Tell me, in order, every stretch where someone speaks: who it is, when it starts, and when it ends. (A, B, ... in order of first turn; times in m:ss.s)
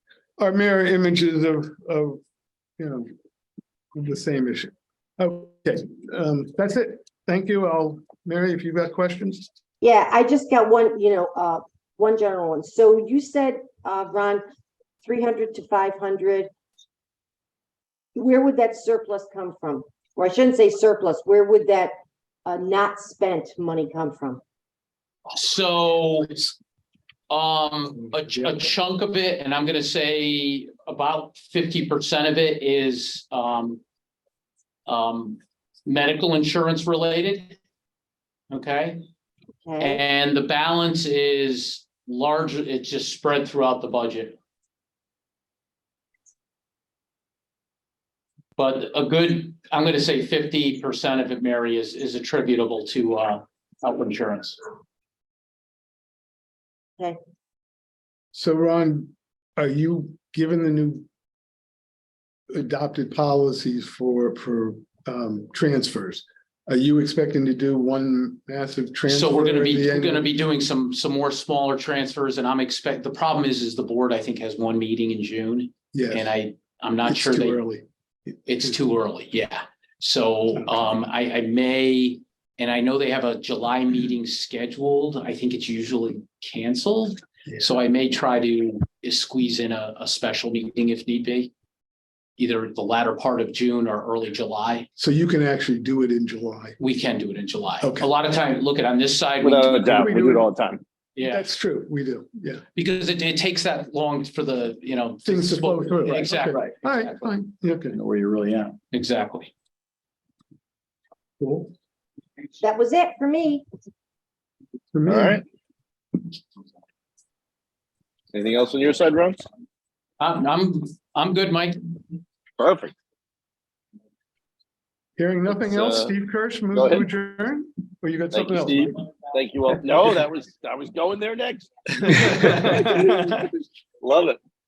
0:00.4-0:02.2 A
0:02.8-0:03.1 A
0:03.9-0:09.5 A
0:09.8-0:14.4 B
0:15.0-0:16.5 B
0:18.2-0:21.9 B
0:22.4-0:24.4 B
0:25.3-0:26.5 C
0:27.3-0:33.8 C
0:34.9-0:37.6 C
0:38.5-0:39.0 C
0:39.6-0:40.0 B
0:39.8-0:44.4 C
0:48.6-0:54.6 C
0:58.3-1:01.1 A
1:02.5-1:10.3 A
1:09.1-1:17.6 C
1:15.9-1:16.3 A
1:17.0-1:17.8 A
1:18.5-1:31.5 C
1:32.4-1:34.9 C
1:35.0-1:36.8 A
1:36.8-1:40.1 C
1:37.8-1:38.1 A
1:39.4-1:40.8 D
1:39.8-1:40.5 A
1:41.2-1:41.4 C
1:41.2-1:42.6 A
1:42.8-1:47.2 C
1:45.2-1:48.0 A
1:47.9-1:49.5 C
1:51.4-1:51.7 A
1:52.6-1:53.6 B
1:54.9-1:55.4 A
1:55.1-1:55.4 D
1:58.3-1:59.4 D
2:00.2-2:02.0 C
2:02.6-2:02.9 D
2:05.2-2:09.0 A
2:05.7-2:06.1 D
2:06.7-2:07.1 D
2:08.3-2:13.4 D
2:11.9-2:13.5 A
2:14.0-2:14.4 D